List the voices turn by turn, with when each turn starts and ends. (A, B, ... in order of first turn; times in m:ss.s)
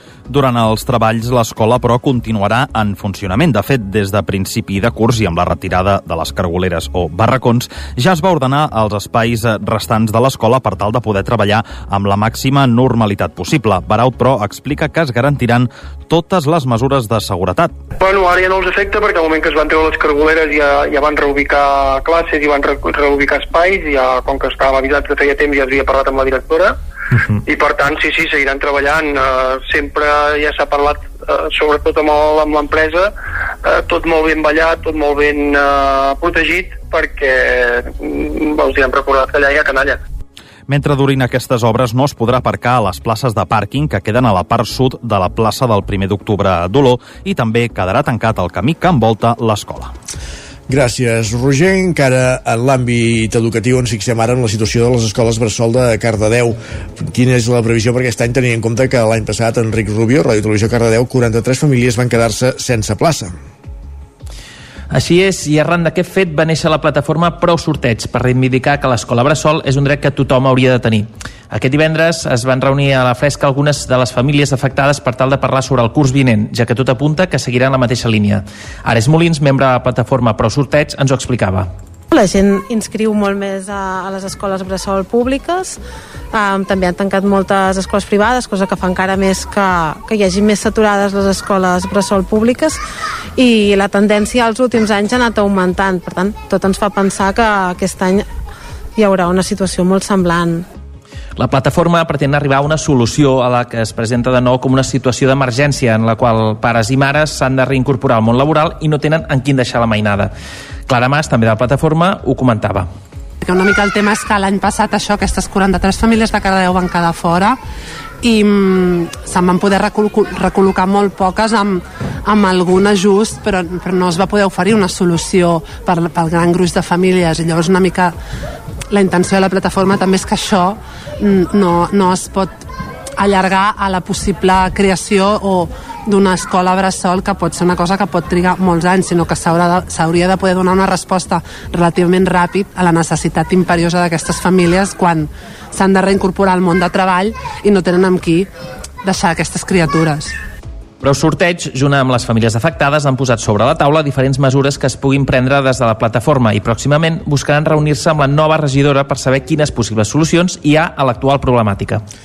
0:00.3-0:17.8 A
0:18.0-0:26.8 B
0:27.4-0:33.1 B
0:33.6-0:40.0 B
0:40.7-0:49.9 A
0:50.7-1:03.3 C
1:04.9-1:21.7 D
1:22.1-1:25.8 E
1:26.3-1:32.8 E
1:33.4-1:38.3 E
1:39.0-1:40.6 E
1:41.4-1:50.3 D
1:50.9-1:52.9 D
1:53.4-1:57.6 F
1:58.2-2:08.1 F
2:08.9-2:12.6 F
2:13.2-2:28.5 F
2:29.0-2:30.3 F
2:31.0-2:42.0 D